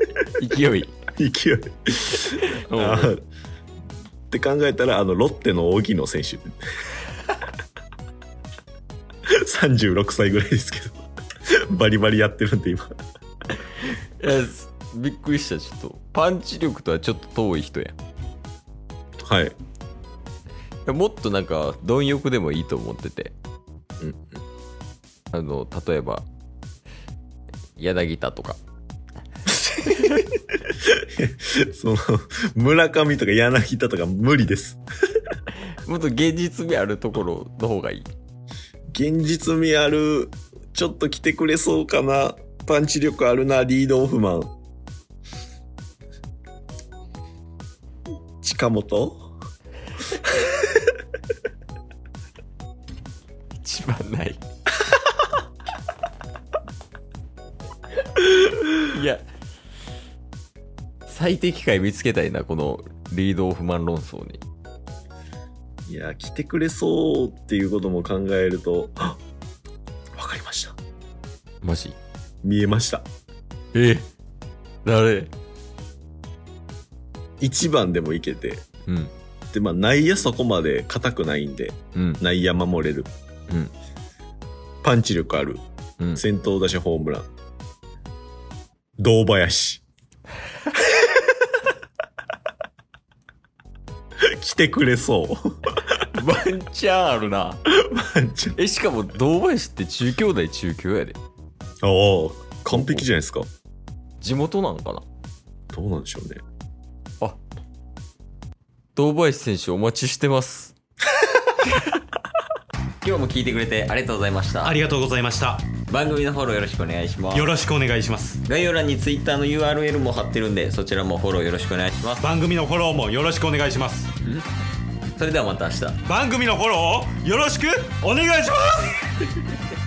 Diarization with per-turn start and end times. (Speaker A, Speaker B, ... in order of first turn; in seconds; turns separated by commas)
Speaker A: 0.3-0.9, Speaker B: 1.2-3.2, Speaker A: 2.1-3.1, Speaker B: 4.3-6.6, Speaker B: 9.3-12.9, Speaker A: 13.8-17.9, Speaker B: 19.2-19.6, Speaker A: 20.9-23.4, Speaker B: 24.0-24.4, Speaker A: 25.3-26.2, Speaker A: 27.8-28.6, Speaker B: 29.6-34.8, Speaker A: 35.8-38.1, Speaker B: 38.9-44.5, Speaker B: 48.4-49.3, Speaker B: 50.2-50.9, Speaker A: 53.6-54.4, Speaker A: 58.7-59.2, Speaker A: 61.1-64.4, Speaker B: 65.9-69.2, Speaker B: 70.1-70.8, Speaker A: 71.6-72.0, Speaker B: 72.4-73.1, Speaker A: 73.7-74.1, Speaker A: 74.8-75.3, Speaker B: 77.4-78.6, Speaker A: 78.9-79.1, Speaker B: 79.5-83.1, Speaker A: 81.9-82.2, Speaker B: 84.8-85.6, Speaker B: 86.2-87.3, Speaker B: 89.0-89.8, Speaker B: 94.2-96.0, Speaker A: 96.1-97.6, Speaker B: 97.7-98.6, Speaker A: 98.5-101.2, Speaker B: 101.8-103.5, Speaker A: 102.7-103.0, Speaker A: 104.2-105.0, Speaker B: 105.7-106.4, Speaker A: 108.9-110.8, Speaker A: 113.0-114.8, Speaker C: 114.6-115.7, Speaker A: 115.9-117.6, Speaker C: 117.3-118.4, Speaker A: 118.4-122.3, Speaker C: 122.2-124.1, Speaker A: 125.2-126.0, Speaker C: 126.0-129.1